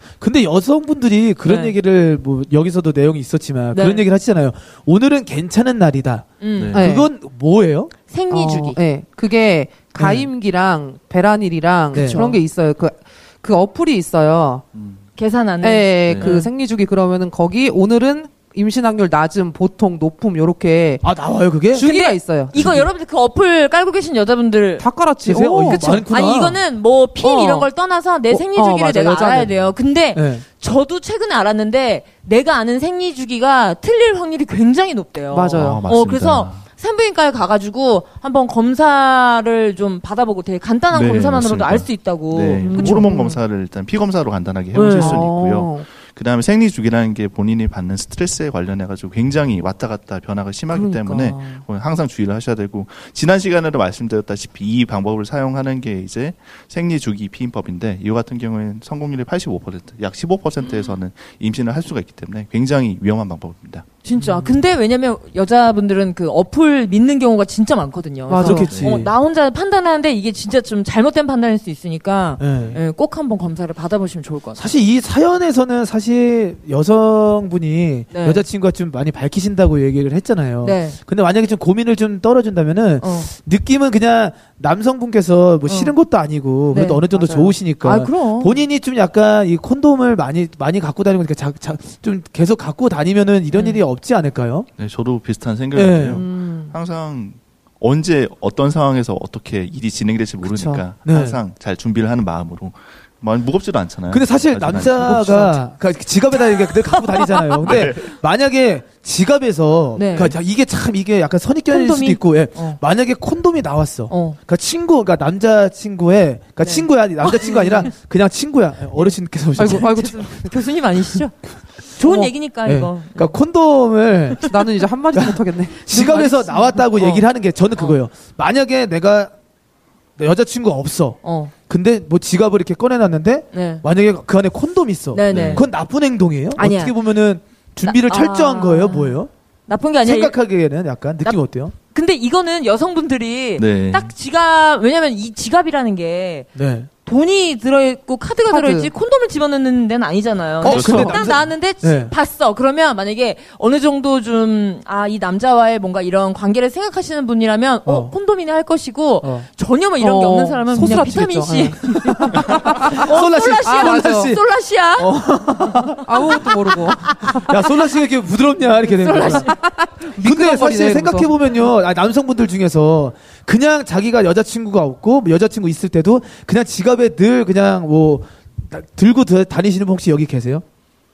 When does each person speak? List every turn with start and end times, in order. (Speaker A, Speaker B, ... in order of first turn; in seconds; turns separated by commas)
Speaker A: 0.2-7.9, Speaker B: 1.5-1.8, Speaker B: 3.7-4.0, Speaker B: 6.4-6.8, Speaker C: 6.6-6.9, Speaker D: 6.7-7.1, Speaker B: 8.1-8.8, Speaker D: 8.3-14.7, Speaker A: 10.0-10.3, Speaker A: 11.9-12.4, Speaker C: 14.8-15.0, Speaker B: 15.2-16.5, Speaker D: 15.6-21.1, Speaker C: 16.1-16.4, Speaker A: 21.0-21.9, Speaker D: 21.7-22.6, Speaker B: 21.8-24.9, Speaker D: 24.8-26.0, Speaker A: 25.2-26.6, Speaker B: 25.8-43.2, Speaker D: 27.2-27.7, Speaker D: 28.3-29.5, Speaker A: 30.1-30.4, Speaker D: 35.3-35.8, Speaker C: 35.5-36.6, Speaker C: 40.9-63.9, Speaker D: 42.6-43.4, Speaker B: 44.7-45.2, Speaker D: 44.8-45.9, Speaker D: 50.7-51.4, Speaker B: 51.2-51.6, Speaker B: 64.0-74.6, Speaker A: 64.2-64.6, Speaker D: 68.3-68.9, Speaker A: 68.4-69.1, Speaker C: 68.7-69.0, Speaker A: 72.4-72.8, Speaker A: 74.6-94.7, Speaker B: 78.1-78.4, Speaker B: 80.6-81.0, Speaker B: 83.0-83.3, Speaker B: 85.7-85.9, Speaker B: 86.7-87.0, Speaker D: 87.1-87.5, Speaker B: 87.8-88.6, Speaker C: 94.8-105.4, Speaker A: 95.7-96.2, Speaker D: 96.1-96.7, Speaker D: 100.4-100.8, Speaker A: 101.0-101.4, Speaker A: 104.1-120.1, Speaker D: 105.0-105.6, Speaker C: 107.6-108.1, Speaker B: 110.0-110.4, Speaker B: 111.7-112.8, Speaker B: 114.1-114.4, Speaker B: 116.6-117.9, Speaker D: 119.6-120.5, Speaker B: 119.8-121.3, Speaker B: 122.0-123.3, Speaker A: 122.0-124.5, Speaker D: 124.5-126.4, Speaker A: 125.1-129.3, Speaker B: 126.0-127.2, Speaker A: 130.2-139.3, Speaker B: 131.2-131.5, Speaker B: 133.5-133.8, Speaker B: 135.1-135.7, Speaker C: 135.3-135.7, Speaker B: 136.6-136.9, Speaker B: 137.8-140.3, Speaker A: 140.0-141.7, Speaker B: 141.9-146.5, Speaker C: 143.6-144.1, Speaker A: 146.6-146.9, Speaker B: 147.1-166.5, Speaker D: 148.5-148.9, Speaker A: 150.6-152.1, Speaker C: 150.6-151.4, Speaker A: 157.8-158.1, Speaker A: 159.2-159.5, Speaker D: 160.0-163.1, Speaker A: 162.3-164.4, Speaker D: 163.6-164.4, Speaker A: 165.0-166.4, Speaker D: 166.1-167.4, Speaker B: 167.0-167.5, Speaker A: 167.3-169.5, Speaker B: 168.9-169.6, Speaker D: 169.3-171.4, Speaker A: 170.2-180.6